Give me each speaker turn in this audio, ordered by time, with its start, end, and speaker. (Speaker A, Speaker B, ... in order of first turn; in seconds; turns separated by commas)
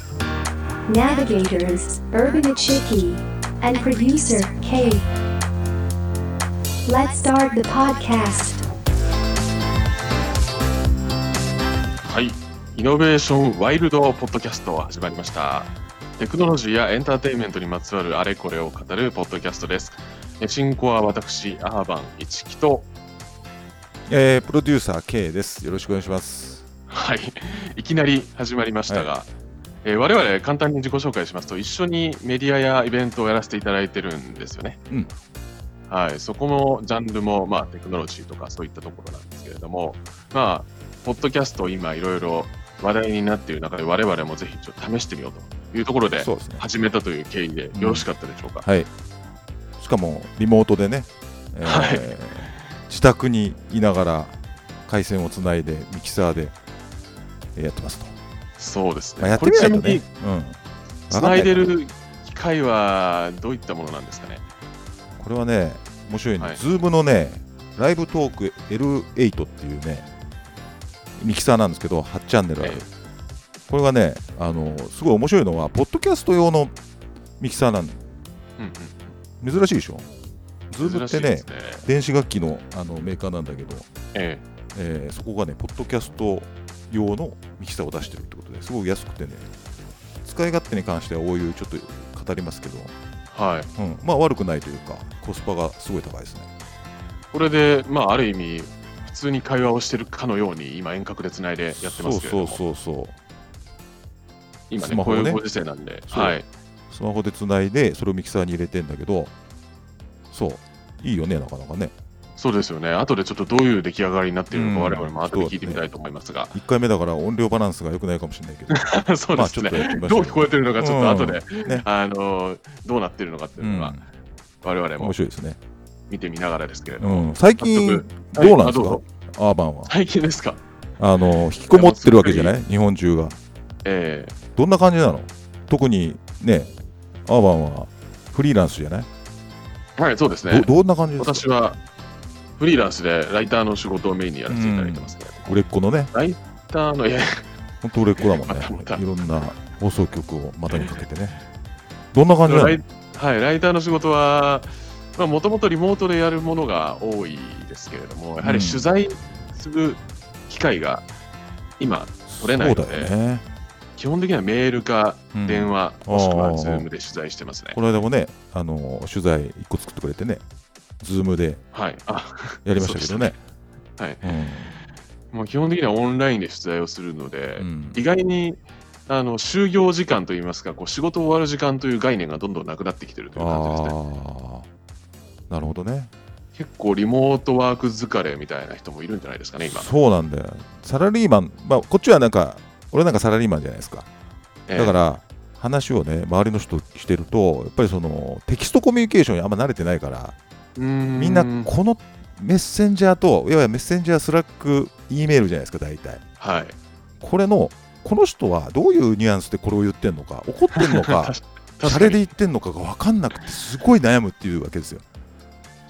Speaker A: 0.9-5.1, Speaker A: 6.8-8.6, Speaker B: 12.0-22.9, Speaker C: 24.1-26.6, Speaker B: 26.9-29.3, Speaker B: 29.8-34.8, Speaker B: 35.9-48.7, Speaker C: 46.2-46.6, Speaker C: 47.7-48.1, Speaker C: 48.6-48.9, Speaker C: 49.8-56.5, Speaker B: 51.6-52.5, Speaker C: 57.5-58.1, Speaker B: 58.6-60.0, Speaker C: 59.2-60.6, Speaker C: 61.1-61.7, Speaker B: 61.1-64.4, Speaker C: 65.2-70.1, Speaker C: 71.2-72.8, Speaker B: 72.6-72.9, Speaker C: 73.7-76.7, Speaker C: 77.4-78.0, Speaker B: 78.6-79.1, Speaker C: 79.4-80.1, Speaker C: 80.7-83.9, Speaker B: 80.8-81.8, Speaker B: 84.1-84.4, Speaker C: 84.7-89.5, Speaker C: 90.2-92.9, Speaker B: 93.3-93.7, Speaker C: 93.8-96.5, Speaker B: 97.3-102.6, Speaker C: 101.7-103.2, Speaker B: 104.7-106.5, Speaker C: 104.8-105.4, Speaker C: 106.1-106.4, Speaker C: 106.9-109.3, Speaker C: 110.3-111.9, Speaker B: 112.4-116.5, Speaker C: 114.5-115.8, Speaker C: 116.5-121.8, Speaker B: 118.7-124.0, Speaker C: 123.6-124.0, Speaker B: 124.6-125.2, Speaker C: 125.0-125.6, Speaker B: 126.1-129.0, Speaker C: 127.0-129.9, Speaker B: 129.9-130.6, Speaker C: 131.0-133.4, Speaker B: 131.6-132.6, Speaker B: 133.8-134.3, Speaker C: 134.5-136.7, Speaker C: 137.2-139.1, Speaker B: 140.0-141.8, Speaker C: 140.5-141.4, Speaker B: 142.6-145.6, Speaker C: 144.5-146.1, Speaker B: 146.1-147.5, Speaker C: 147.8-151.4, Speaker B: 148.2-149.5, Speaker C: 152.1-152.8, Speaker B: 152.4-161.1, Speaker C: 158.4-158.9, Speaker B: 161.8-163.1, Speaker C: 162.3-163.4, Speaker B: 163.9-167.8, Speaker C: 165.3-166.9, Speaker C: 167.7-170.4, Speaker C: 171.0-171.6, Speaker B: 171.7-173.4, Speaker C: 172.6-173.4, Speaker B: 174.0-174.2, Speaker C: 174.2-174.7, Speaker B: 175.3-183.9, Speaker C: 177.6-178.0, Speaker C: 183.3-184.7, Speaker C: 185.5-186.1, Speaker B: 186.6-189.9, Speaker C: 189.7-194.1, Speaker B: 194.7-195.0, Speaker C: 194.8-200.4, Speaker B: 200.8-201.7, Speaker C: 201.2-206.2, Speaker B: 206.4-206.8, Speaker C: 207.2-215.0, Speaker B: 210.8-212.2